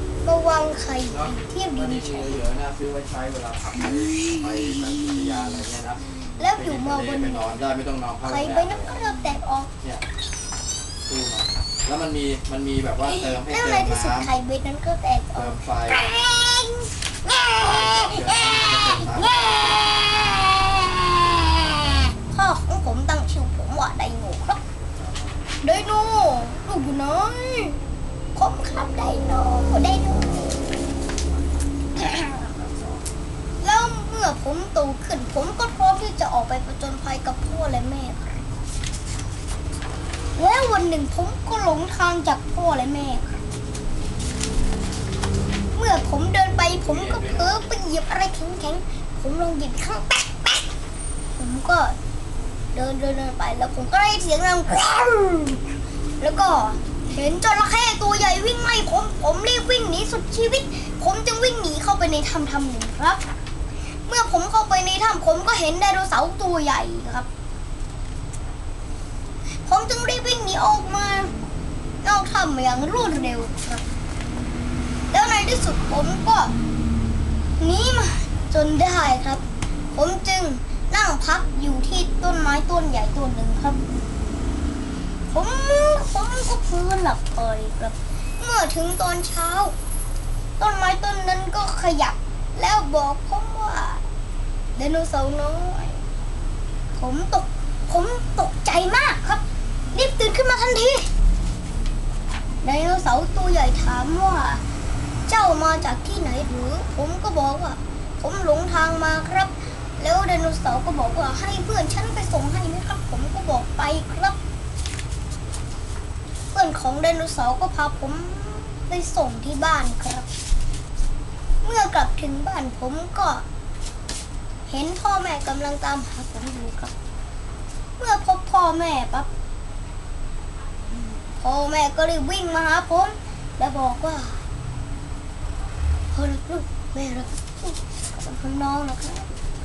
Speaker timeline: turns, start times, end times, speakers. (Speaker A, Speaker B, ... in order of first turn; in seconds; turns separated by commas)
Speaker A: 0.2-2.5, Speaker B: 1.1-9.0, Speaker A: 3.8-5.6, Speaker A: 6.3-7.6, Speaker A: 8.3-9.7, Speaker B: 11.1-14.3, Speaker A: 13.0-24.6, Speaker B: 15.3-16.1, Speaker B: 17.6-20.0, Speaker B: 24.9-25.3, Speaker A: 25.6-27.8, Speaker A: 28.4-30.8, Speaker A: 31.9-32.6, Speaker B: 32.4-33.0, Speaker A: 33.6-38.5, Speaker A: 40.4-43.4, Speaker A: 45.8-50.7, Speaker B: 46.8-47.7, Speaker A: 51.4-52.0, Speaker A: 52.7-55.7, Speaker A: 56.2-63.2, Speaker A: 64.1-67.3, Speaker A: 69.7-71.3, Speaker A: 72.0-73.8, Speaker A: 75.1-76.6, Speaker A: 77.6-79.4, Speaker A: 80.0-83.9, Speaker A: 85.3-89.8, Speaker A: 90.6-94.0, Speaker A: 94.8-96.0, Speaker A: 97.0-101.1, Speaker A: 102.6-104.6, Speaker A: 105.3-114.4, Speaker A: 116.5-120.3, Speaker A: 121.6-123.5, Speaker A: 124.7-126.9, Speaker A: 128.0-129.3, Speaker A: 131.2-134.4, Speaker A: 136.1-139.3